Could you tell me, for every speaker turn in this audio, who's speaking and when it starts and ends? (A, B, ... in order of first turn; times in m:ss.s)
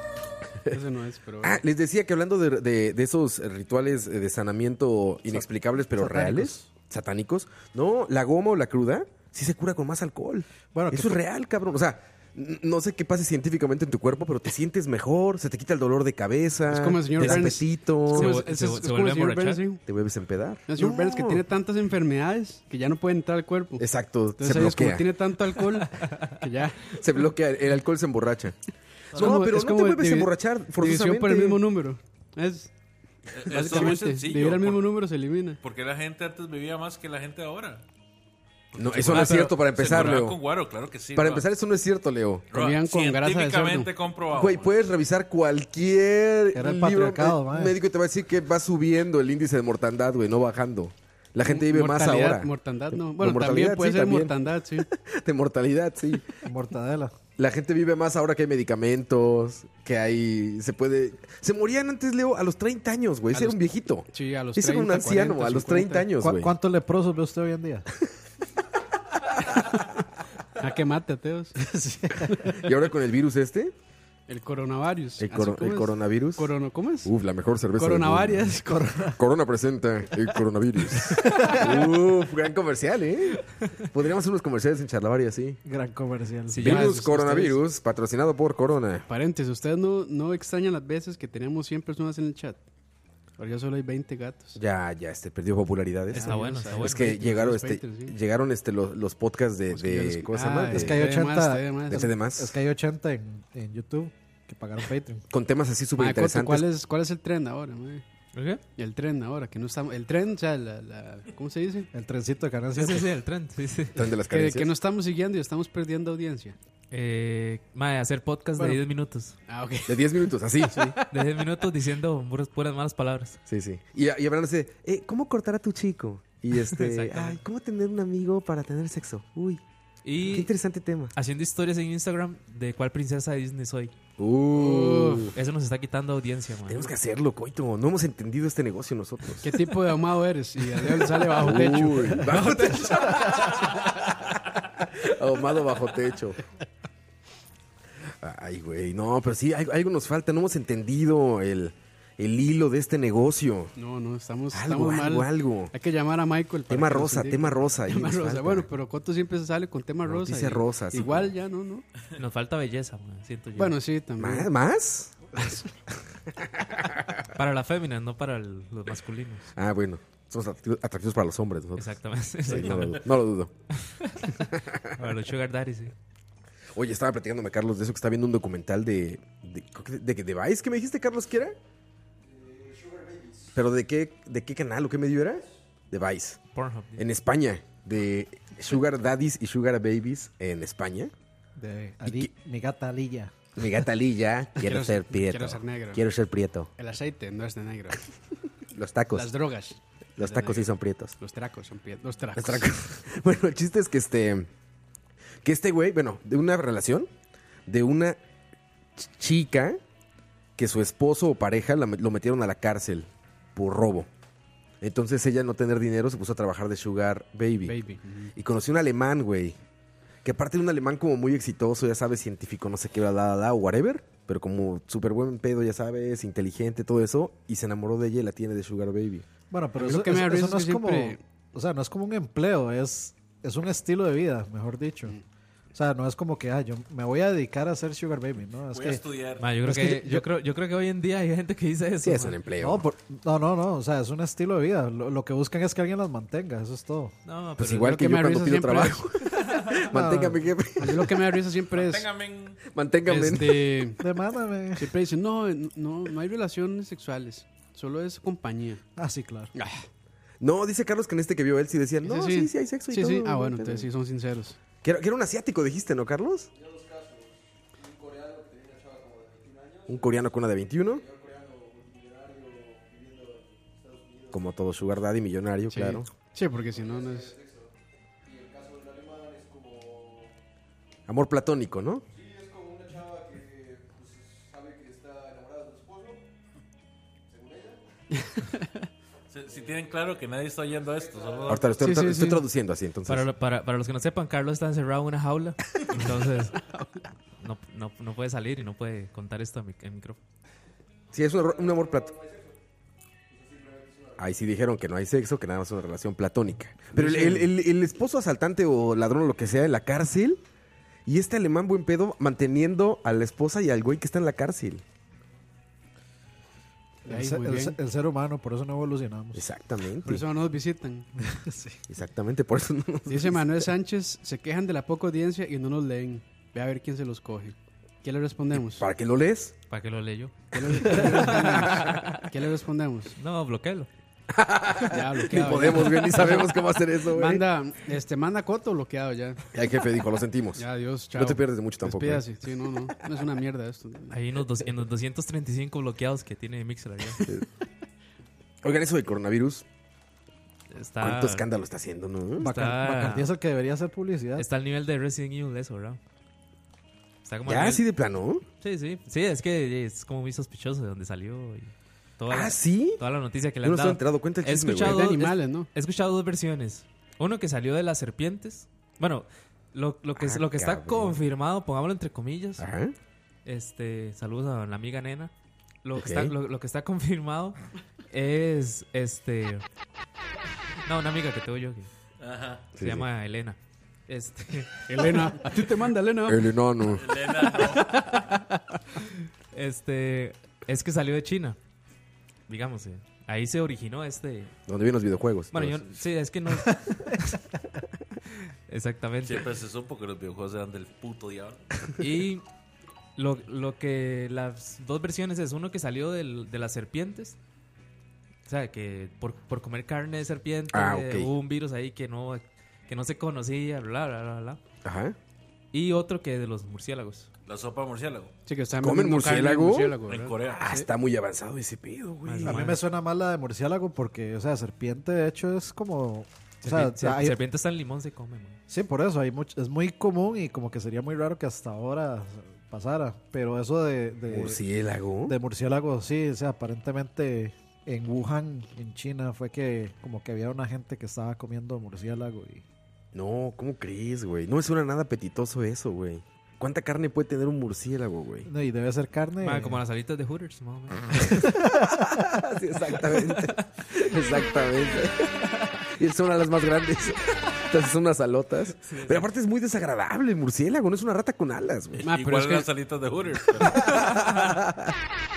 0:00.7-0:01.6 A
0:01.4-0:18.4 B
0:05.3-0:06.7 C
0:10.7-0:11.2 C
0:16.7-0:19.8 A
0:18.1-0:19.6 D
0:19.8-0:21.4 B
0:20.7-0:23.9 A
0:23.8-0:25.1 B
0:24.4-0:27.0 A
0:26.9-0:28.6 B
0:29.1-0:32.7 A
0:29.1-0:31.6 B
0:33.3-0:34.9 E
0:33.4-0:35.6 A
0:35.6-0:37.8 E
0:38.7-0:40.4 B
0:38.8-0:41.5 E
0:38.8-0:39.4 D
0:39.1-0:39.6 A
0:41.1-0:42.5 B
0:42.5-0:43.9 A
0:42.5-0:44.7 E
0:44.3-0:56.4 B
0:46.5-0:47.8 C
0:51.4-0:54.9 A
0:56.4-0:57.2 C
0:57.4-1:06.5 B
1:03.3-1:03.6 A
1:04.1-1:06.1 A
1:06.2-1:07.8 C
1:10.6-1:11.5 A
1:11.6-1:12.5 C
1:12.4-1:13.7 B
1:14.3-1:17.1 A
1:15.2-1:18.6 B
1:17.7-1:19.1 A
1:18.6-1:19.2 C
1:19.1-1:25.6 B
1:21.2-1:21.8 C
1:25.6-1:26.8 C
1:26.5-1:26.9 D
1:26.6-1:29.1 B
1:26.6-1:27.6 A
1:29.1-1:32.6 A
1:33.4-1:34.6 A
1:34.6-1:41.0 B
1:36.1-1:38.2 A
1:36.1-1:37.1 D
1:39.7-1:42.1 A
1:40.7-1:45.2 C
1:41.9-1:42.6 B
1:45.3-1:46.6 B
1:46.0-1:48.0 A
1:48.3-1:48.6 D
1:48.8-1:51.9 A
1:51.9-1:53.2 C
1:52.7-1:54.0 D
1:54.0-1:54.7 B
1:54.3-1:56.6 A
1:56.9-1:59.4 D
1:59.5-2:01.1 A
1:59.9-2:01.0 B
2:01.1-2:03.4 D
2:03.5-2:09.6 B
2:06.6-2:07.4 D
2:10.0-2:10.5 D
2:10.2-2:11.1 B
2:11.1-2:13.9 D
2:14.2-2:15.3 B
2:14.5-2:15.3 A
2:15.3-2:16.9 D
2:16.7-2:19.7 B
2:19.4-2:22.4 A
2:20.8-2:26.4 B
2:22.3-2:23.5 D
2:28.2-2:33.7 B
2:33.8-2:41.8 A
2:34.5-2:35.7 B
2:36.7-2:38.7 B
2:40.0-2:41.3 B
2:42.2-2:43.7 D
2:43.6-2:44.5 A
2:44.2-2:45.3 B
2:46.4-2:47.2 B
2:47.3-2:49.5 D
2:49.6-2:53.5 B
2:51.8-2:53.0 D
2:53.7-2:54.4 D
2:54.4-2:55.0 B
2:55.0-2:55.9 D
2:56.7-3:01.6 B
3:03.5-3:06.4 B
3:06.5-3:07.0 D
3:07.0-3:11.1 B
3:11.6-3:13.3 C
3:12.0-3:12.3 B
3:13.6-3:16.7 B
3:14.6-3:16.0 A
3:16.8-3:18.0 A
3:18.7-3:19.3 B
3:19.1-3:22.7 A
3:20.2-3:21.2 B
3:22.4-3:24.5 B
3:25.4-3:27.1 B
3:27.7-3:28.2 B
3:29.0-3:29.8 B
3:30.6-3:34.1 B
3:34.8-3:37.8 B
3:37.6-3:38.3 A
3:38.3-3:39.6 B
3:40.2-3:49.2 B
3:49.5-3:55.2 C
3:49.8-3:51.2 A
3:55.7-3:59.0 C
3:58.7-3:59.4 E
3:59.4-4:02.4 D
3:59.6-4:00.2 C
4:02.0-4:02.8 B
4:02.6-4:07.1 C
4:07.2-4:07.9 D
4:07.6-4:11.3 B
4:07.8-4:09.0 A
4:09.9-4:10.5 C
4:10.8-4:12.1 A
4:11.7-4:12.6 E
4:12.6-4:13.8 B
4:13.0-4:14.0 A
4:14.0-4:14.9 C
4:14.8-4:18.8 A
4:19.0-4:19.5 C
4:19.5-4:19.8 A
4:20.4-4:23.9 B
4:22.0-4:24.6 A
4:24.8-4:26.5 B
4:29.8-4:31.1 B
4:34.3-4:36.1 B
4:35.7-4:37.4 A
4:41.1-4:42.0 B
4:48.2-4:48.7 A
4:49.3-4:51.8 E
4:51.5-4:53.3 B
4:51.8-4:52.4 A
4:53.0-4:56.6 D
4:56.6-4:57.0 A
4:57.4-5:00.2 D
5:01.1-5:02.2 B
5:04.2-5:10.4 B
5:06.9-5:07.5 A
5:11.0-5:14.8 B
5:17.0-5:19.4 C
5:17.1-5:17.8 A
5:19.3-5:20.2 B
5:20.0-5:21.1 A
5:21.2-5:21.8 C
5:21.9-5:23.7 B
5:23.1-5:28.8 A
5:28.6-5:29.5 B
5:29.7-5:32.2 D
5:30.5-5:33.2 A
5:30.9-5:31.4 B
5:33.2-5:33.9 D
5:34.3-5:37.4 B
5:34.9-5:39.4 A
5:39.5-5:42.2 B
5:40.6-5:44.2 A
5:44.1-5:47.2 D
5:48.6-5:49.6 B
5:50.7-5:51.4 D
5:51.0-5:52.5 B
5:52.4-5:54.4 C
5:52.4-5:53.3 D
5:54.4-5:56.0 D
5:57.2-5:57.8 D
5:57.4-5:58.4 B
5:58.6-6:12.6 D
6:02.3-6:03.0 B
6:03.6-6:05.1 B
6:04.8-6:05.7 A
6:10.2-6:11.2 B
6:12.6-6:12.9 B
6:13.4-6:15.3 D
6:15.8-6:17.6 D
6:16.0-6:16.3 B
6:18.1-6:19.6 D
6:20.8-6:21.9 D
6:22.2-6:22.7 E
6:22.7-6:23.1 B
6:22.8-6:23.6 D
6:24.1-6:25.4 D
6:24.9-6:26.5 A
6:26.3-6:27.1 B
6:26.9-6:28.0 E
6:27.8-6:28.4 D
6:29.5-6:31.6 D
6:32.5-6:34.5 D
6:34.7-6:35.9 B
6:35.5-6:37.4 D
6:38.7-6:39.5 D
6:39.2-6:41.6 E
6:42.0-6:42.4 D
6:43.2-6:47.4 D
6:48.5-6:54.6 D
6:50.7-6:51.3 B
6:54.8-6:55.2 B
6:55.7-6:57.3 D
6:57.4-6:58.3 E
6:58.5-7:00.9 A
6:58.8-7:02.7 B
7:00.1-7:00.7 E
7:02.2-7:02.8 D
7:02.4-7:07.4 C
7:06.6-7:08.6 D
7:08.7-7:14.6 C
7:14.3-7:15.4 B
7:15.2-7:22.6 C
7:23.1-7:28.5 B
7:28.4-7:29.8 C
7:29.4-7:31.5 D
7:31.4-7:32.2 C
7:32.2-7:42.1 B
7:38.8-7:39.2 D
7:42.0-7:44.0 E
7:42.0-7:42.7 A
7:43.6-7:44.9 B
7:44.0-7:44.3 D